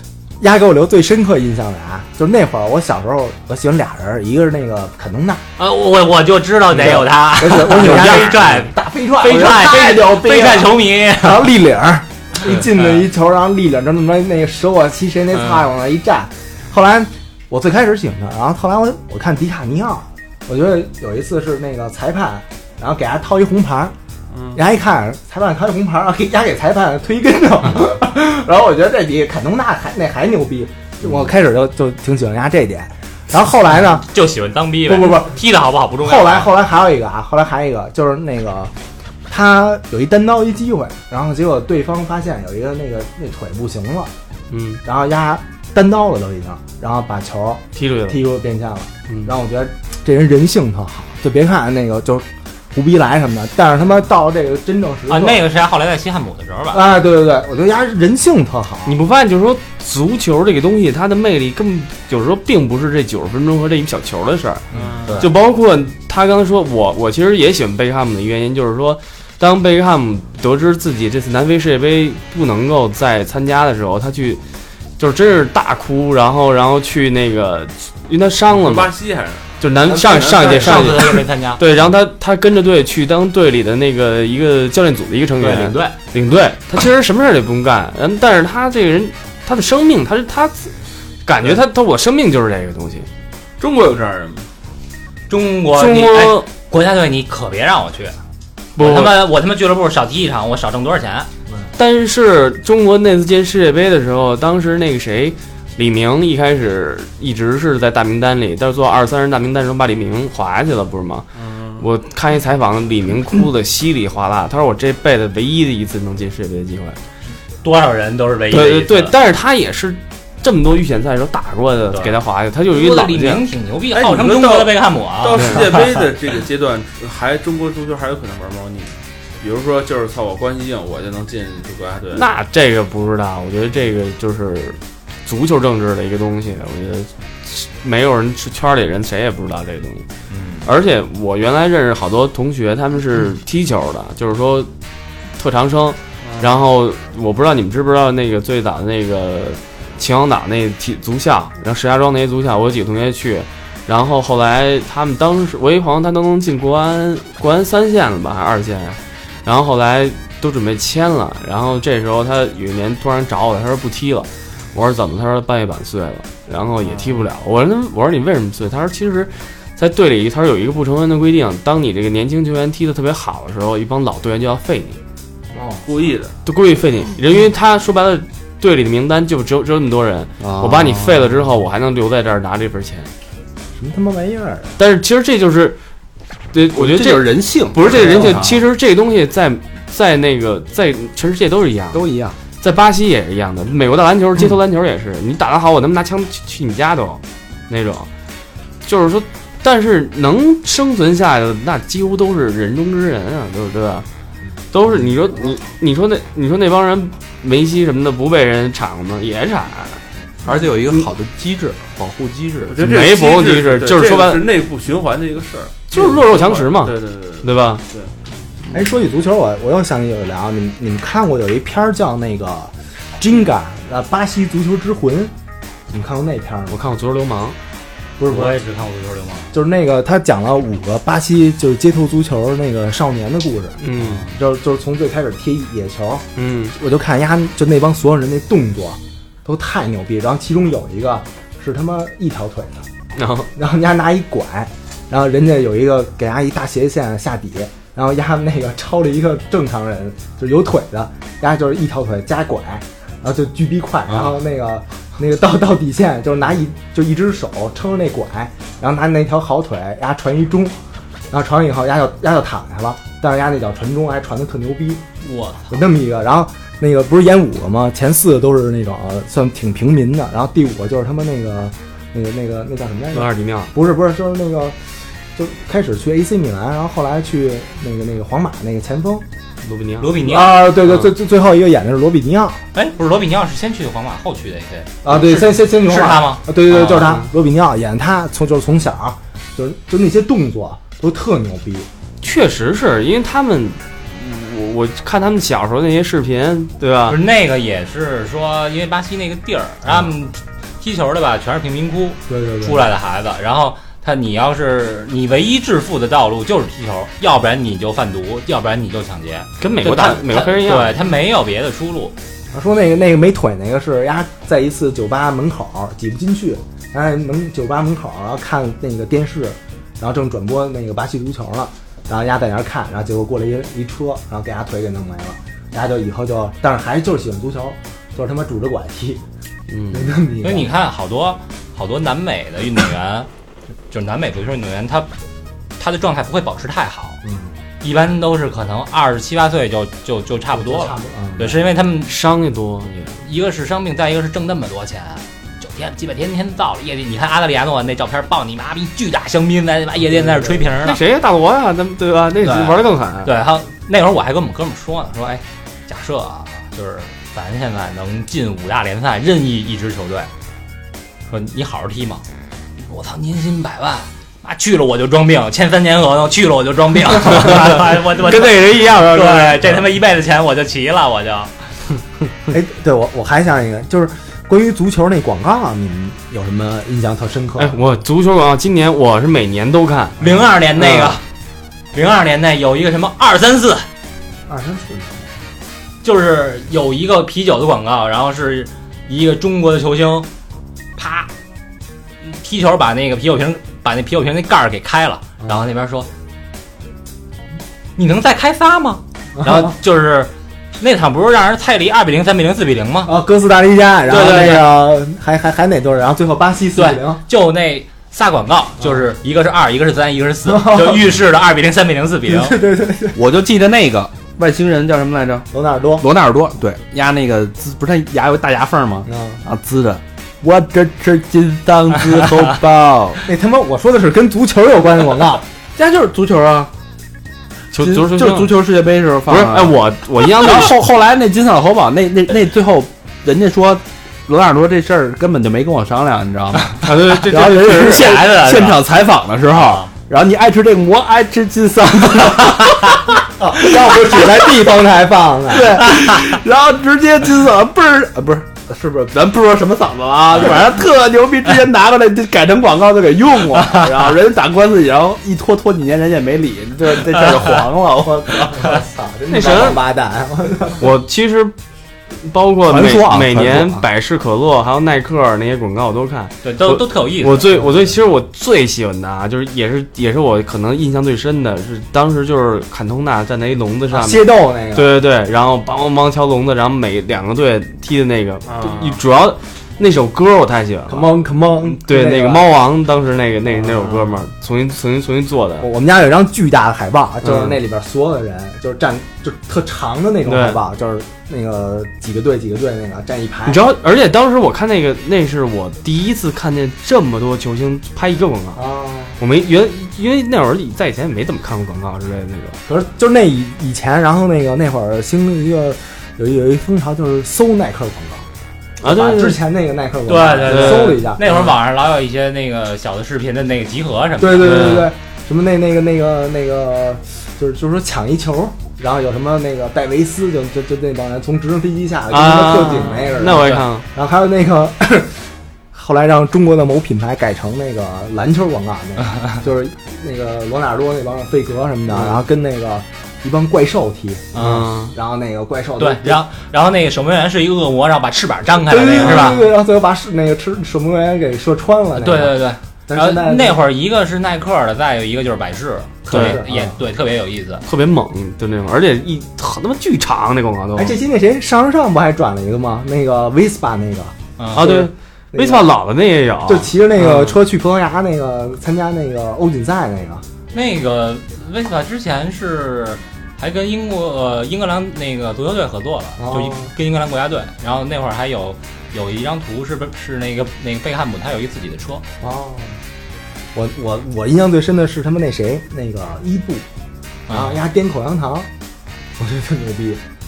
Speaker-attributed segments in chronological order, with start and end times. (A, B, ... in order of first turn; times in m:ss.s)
0:00.4-0:05.4 A
0:05.6-0:11.5 B
0:06.7-0:23.9 A
0:07.7-0:08.4 C
0:24.3-0:24.6 D
0:24.5-0:34.0 A
0:33.9-0:36.5 B
0:34.8-0:35.4 A
0:36.0-0:38.7 A
0:39.3-0:44.1 A
0:44.5-0:44.8 C
0:44.8-0:55.4 A
0:47.7-0:48.2 C
0:49.1-0:49.3 C
0:55.1-0:56.8 B
0:56.7-0:59.0 A
0:58.8-1:04.6 C
1:04.7-1:05.3 D
1:05.2-1:14.4 C
1:15.0-1:18.9 C
1:18.5-1:20.9 D
1:19.6-1:30.7 C
1:20.2-1:21.6 B
1:25.4-1:25.9 B
1:31.2-1:33.1 C
1:33.6-1:34.5 D
1:35.3-1:38.2 B
1:35.7-1:36.5 C
1:38.8-1:39.3 C
1:38.8-1:41.3 B
1:41.8-1:57.0 C
1:51.4-1:51.8 D
1:57.6-1:59.1 B
1:58.5-2:03.4 C
2:01.9-2:02.2 B
2:02.7-2:06.0 B
2:03.9-2:12.3 D
2:05.3-2:05.6 C
2:12.1-2:20.0 C
2:20.3-2:20.6 B
2:20.6-2:24.7 C
2:25.4-2:55.0 C
2:26.2-2:26.5 D
2:55.5-2:55.9 A
2:55.8-2:56.3 D
2:56.4-3:03.1 C
3:00.4-3:01.4 E
3:03.8-3:04.7 A
3:04.8-3:05.8 C
3:06.5-3:12.0 C
3:06.7-3:08.6 E
3:11.9-3:12.4 E
3:12.6-3:18.1 C
3:18.8-3:24.0 C
3:24.7-3:30.0 C
3:30.4-3:32.9 E
3:32.7-3:38.1 D
3:32.8-3:34.5 C
3:35.9-3:37.8 C
3:38.7-3:45.3 A
3:45.9-3:46.8 A
3:46.7-3:47.6 C
3:48.2-3:48.6 A
3:48.3-3:49.5 B
3:49.5-4:02.8 A
3:53.8-3:54.2 C
3:54.0-3:54.4 B
3:56.4-3:56.7 C
4:03.2-4:03.5 C
4:03.5-4:20.8 A
4:21.3-4:25.0 A
4:25.2-4:25.8 B
4:25.7-4:34.8 A
4:33.1-4:33.7 C
4:35.4-4:39.2 A
4:39.6-4:40.1 C
4:40.0-4:40.7 B
4:40.2-4:42.6 A
4:40.8-4:41.1 C
4:42.7-4:46.4 B
4:45.0-4:51.9 A
4:46.7-4:47.3 C
4:52.2-4:57.2 C
4:57.1-5:12.1 B
5:02.3-5:02.9 A
5:09.6-5:11.0 C
5:12.5-5:29.2 A
5:29.7-5:30.1 C
5:29.9-5:30.7 A
5:30.4-5:33.3 B
5:33.9-5:35.1 B
5:35.8-5:37.2 B
5:37.2-5:37.5 A
5:37.8-5:42.2 B
5:40.5-5:41.6 A
5:42.0-5:43.2 C
5:43.2-5:51.0 B
5:50.1-5:50.6 A
5:50.8-5:53.3 C
5:52.4-6:00.3 B
6:01.3-6:02.2 B
6:02.9-6:11.5 B
6:07.5-6:09.8 C
6:12.5-6:17.8 A
6:17.6-6:20.2 C
6:20.2-6:21.2 B
6:20.8-6:21.2 C
6:21.9-6:23.9 B
6:24.5-6:25.2 A
6:26.0-6:30.3 B
6:31.0-6:31.3 B
6:32.2-6:36.1 B
6:38.0-6:43.1 B
6:39.4-6:39.7 A
6:43.0-6:47.2 A
6:44.1-6:44.7 B
6:46.7-6:52.6 B
6:50.4-6:51.1 A
6:52.3-6:53.2 A
6:53.1-7:03.2 E
6:55.5-6:56.1 A
6:59.0-6:59.4 A
7:03.2-7:05.4 A
7:05.8-7:06.7 E
7:07.7-7:08.6 C
7:07.8-7:23.0 E
7:09.3-7:10.8 C
7:16.8-7:18.2 C
7:17.7-7:18.8 B
7:19.5-7:19.9 B
7:23.4-7:25.9 A
7:23.8-7:24.2 E
7:25.5-7:38.7 E
7:33.6-7:33.9 B
7:37.2-7:37.6 B
7:38.0-7:40.9 A
7:39.3-7:39.8 C
7:40.8-7:41.5 C
7:42.2-8:05.7 C
7:42.7-7:43.8 E
7:46.4-7:47.5 B
7:47.5-7:47.9 A
7:53.9-7:54.9 A
7:58.4-7:59.0 D
8:00.9-8:02.5 A
8:03.6-8:04.1 D
8:05.6-8:13.7 A
8:07.2-8:07.6 C
8:10.2-8:10.6 C
8:13.4-8:18.6 C
8:18.5-8:19.2 A
8:19.2-8:22.6 C
8:22.7-8:28.2 A
8:28.8-8:29.4 C
8:28.8-8:31.2 A
8:30.1-8:34.7 B
8:30.4-8:31.5 C
8:34.2-8:45.2 A
8:34.4-8:34.9 C
8:42.1-8:43.8 C
8:43.2-8:43.7 B
8:45.7-8:56.2 A
8:51.9-8:52.2 C
8:54.3-8:54.6 B
8:54.4-8:54.9 C
8:55.8-8:59.4 B
8:58.7-9:03.6 A
8:59.0-8:59.4 C
9:02.0-9:07.6 B
9:06.1-9:06.7 A
9:06.1-9:06.4 C
9:07.6-9:11.0 C
9:10.8-9:15.6 A
9:14.4-9:14.7 B
9:14.5-9:17.4 C
9:16.4-9:20.2 A
9:20.5-9:32.0 B
9:26.2-9:26.7 A
9:32.2-9:32.8 A
9:33.5-9:36.6 A
9:37.3-9:37.6 B
9:37.3-9:38.5 A
9:39.2-9:40.0 A